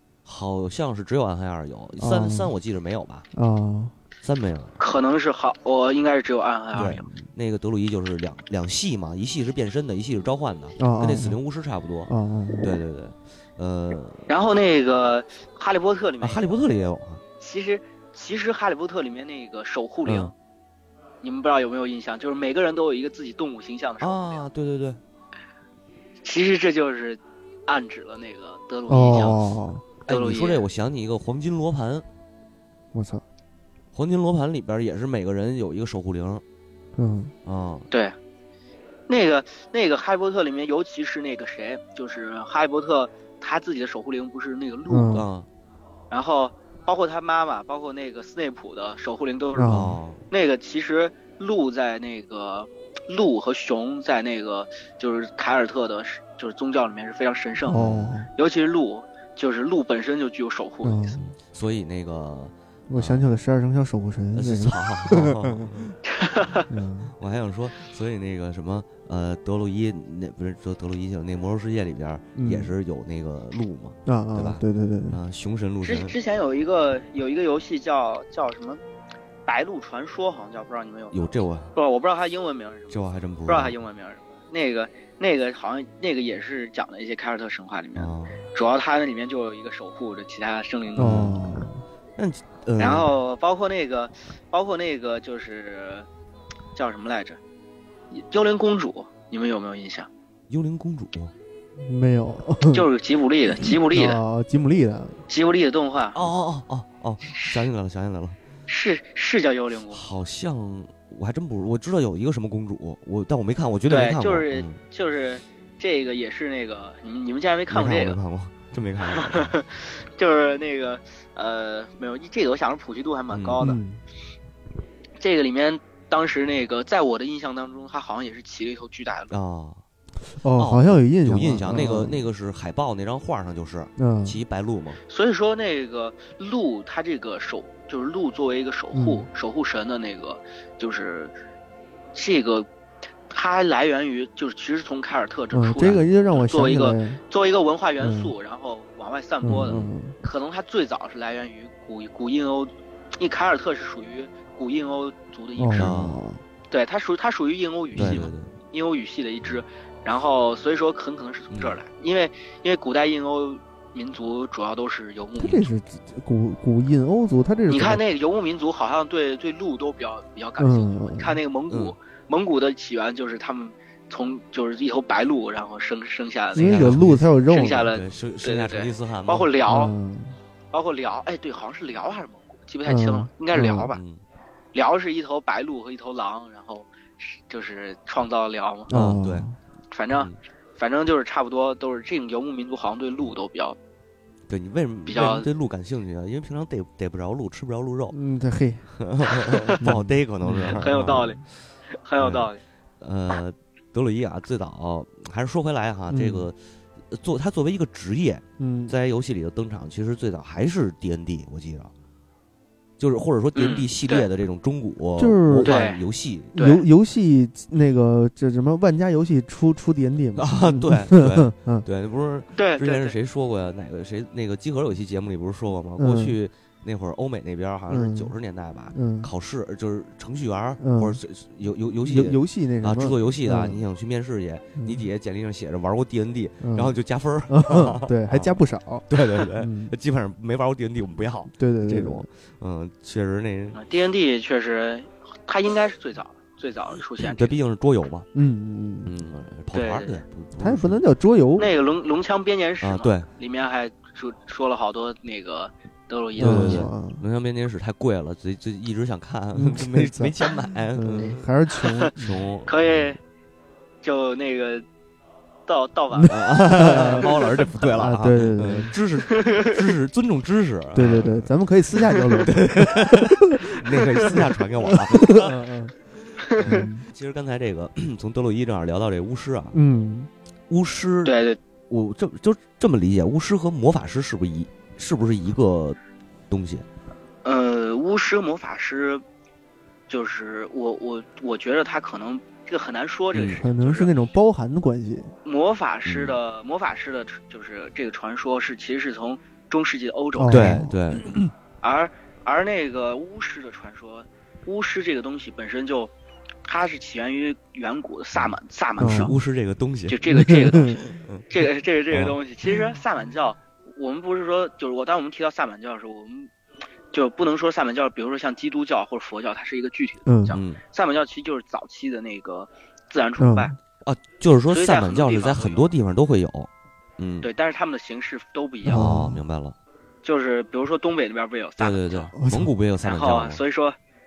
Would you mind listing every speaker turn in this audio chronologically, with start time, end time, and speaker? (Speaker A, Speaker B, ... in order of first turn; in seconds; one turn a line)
Speaker A: 0.2-3.3
Speaker B: 2.0-2.5
Speaker B: 3.3-3.9
Speaker A: 4.2-4.7
Speaker C: 4.8-7.1
Speaker A: 6.8-12.1
Speaker B: 10.8-11.4
Speaker B: 12.1-12.8
Speaker A: 12.6-14.3
Speaker C: 14.3-16.5
Speaker A: 16.2-17.2
Speaker C: 17.4-20.3
Speaker A: 20.1-20.3
Speaker C: 21.2-24.4
Speaker A: 24.0-25.0
Speaker C: 26.2-29.4
Speaker B: 28.9-29.9
Speaker C: 30.1-30.6
Speaker A: 30.1-32.0
Speaker B: 32.9-33.2
Speaker A: 33.9-36.4
Speaker B: 37.0-37.3
Speaker A: 37.5-37.9
Speaker C: 39.1-45.2
Speaker B: 44.9-45.3
Speaker A: 45.1-45.5
Speaker C: 46.1-57.8
Speaker B: 49.6-50.0
Speaker A: 49.7-50.2
Speaker B: 57.7-58.3
Speaker A: 57.7-58.2
Speaker C: 58.4-61.2
Speaker B: 60.8-61.2
Speaker A: 61.2-63.3
Speaker B: 62.9-65.8
Speaker A: 64.3-65.9
Speaker C: 66.0-66.7
Speaker B: 66.7-67.1
Speaker A: 67.2-76.2
Speaker B: 72.4-72.7
Speaker B: 74.1-75.2
Speaker C: 75.8-78.8
Speaker C: 79.5-91.3
Speaker A: 81.1-81.7
Speaker A: 82.9-83.8
Speaker A: 88.0-88.4
Speaker B: 91.0-91.8
Speaker A: 91.0-91.4
Speaker A: 92.2-93.1
Speaker C: 92.8-96.1
Speaker C: 96.8-97.4
Speaker C: 98.1-100.1
Speaker A: 100.5-101.3
Speaker B: 101.8-102.9
Speaker C: 102.7-104.2
Speaker B: 103.6-105.2
Speaker C: 105.3-106.2
Speaker A: 106.2-108.4
Speaker C: 107.3-107.6
Speaker C: 108.7-110.0
Speaker A: 109.9-114.8
Speaker C: 113.9-118.2
Speaker A: 117.7-119.5
Speaker C: 119.1-123.8
Speaker A: 123.3-123.6
Speaker B: 123.6-124.0
Speaker C: 125.2-129.3
Speaker A: 129.3-129.8
Speaker B: 130.4-132.2
Speaker A: 130.6-135.0
Speaker B: 134.0-134.4
Speaker C: 135.1-141.3
Speaker B: 138.9-139.3
Speaker C: 142.1-142.7
Speaker C: 143.3-155.9
Speaker B: 145.5-147.2
Speaker B: 148.0-148.3
Speaker B: 149.4-150.2
Speaker A: 149.6-149.9
Speaker B: 155.6-156.4
Speaker A: 155.8-156.2
Speaker C: 156.7-165.6
Speaker B: 157.9-158.3
Speaker A: 158.0-158.5
Speaker A: 161.5-161.8
Speaker B: 165.4-168.0
Speaker C: 167.7-179.9
Speaker B: 170.6-171.4
Speaker A: 171.7-171.9
Speaker B: 176.5-177.9
Speaker A: 176.6-179.5
Speaker B: 179.7-180.4
Speaker C: 180.7-184.0
Speaker B: 182.9-183.9
Speaker A: 183.9-184.2
Speaker C: 184.7-188.9
Speaker B: 188.9-189.6
Speaker A: 188.9-189.5
Speaker C: 189.9-193.8
Speaker A: 194.5-198.2
Speaker C: 195.1-195.5
Speaker B: 198.1-198.9
Speaker A: 198.9-201.3
Speaker B: 199.8-201.4
Speaker C: 200.7-202.6
Speaker A: 202.2-202.5
Speaker A: 203.0-206.6
Speaker B: 206.1-206.5
Speaker A: 207.1-211.9
Speaker B: 208.6-208.9
Speaker A: 213.0-216.6
Speaker C: 213.6-214.3
Speaker B: 215.2-215.8
Speaker C: 215.6-216.0
Speaker C: 216.6-216.8
Speaker B: 216.6-221.8
Speaker A: 220.4-238.6
Speaker C: 222.6-223.2
Speaker B: 226.0-226.4
Speaker B: 227.9-228.3
Speaker B: 228.9-229.3
Speaker B: 230.8-231.2
Speaker B: 232.1-233.8
Speaker B: 234.8-235.1
Speaker B: 236.6-236.9
Speaker B: 237.5-239.9
Speaker A: 239.1-243.8
Speaker B: 241.5-242.3
Speaker C: 243.7-247.6
Speaker A: 247.2-248.3
Speaker B: 248.3-249.1
Speaker A: 249.1-251.0
Speaker C: 249.7-250.2
Speaker B: 250.6-251.7
Speaker C: 251.6-256.9
Speaker A: 252.8-253.3
Speaker B: 256.4-257.2
Speaker A: 256.4-261.4
Speaker B: 259.6-260.4
Speaker B: 260.9-262.4
Speaker C: 261.8-262.1
Speaker A: 262.2-263.0
Speaker C: 262.7-263.2
Speaker C: 264.0-264.9
Speaker C: 265.7-266.3
Speaker B: 266.1-267.3
Speaker A: 266.3-271.5
Speaker C: 266.9-267.6
Speaker B: 267.9-268.9
Speaker C: 269.3-269.8
Speaker B: 270.9-273.4
Speaker A: 272.4-275.6
Speaker B: 274.3-275.9
Speaker C: 276.4-276.8
Speaker A: 276.5-279.8
Speaker B: 276.6-277.1
Speaker B: 279.7-280.3
Speaker A: 280.7-281.4
Speaker C: 281.2-281.6
Speaker A: 281.9-286.0
Speaker A: 286.5-286.9
Speaker C: 287.4-289.2
Speaker C: 290.1-294.1
Speaker A: 293.3-293.6
Speaker B: 293.6-295.3
Speaker C: 295.4-301.2
Speaker A: 296.1-296.4
Speaker B: 300.4-301.0
Speaker A: 300.5-301.4
Speaker C: 301.8-306.1
Speaker C: 306.7-309.3
Speaker A: 308.4-310.2
Speaker B: 309.0-309.3
Speaker C: 310.1-316.5
Speaker B: 310.3-311.0
Speaker A: 311.0-311.4
Speaker A: 312.1-312.8
Speaker C: 317.1-323.7
Speaker B: 320.3-320.6
Speaker A: 320.5-320.8
Speaker B: 323.4-323.8
Speaker A: 324.0-327.5
Speaker C: 324.7-325.9
Speaker C: 327.4-329.1
Speaker B: 328.9-329.4
Speaker A: 328.9-329.8
Speaker C: 330.2-332.3
Speaker A: 331.8-333.6
Speaker B: 332.4-332.7
Speaker C: 333.0-334.0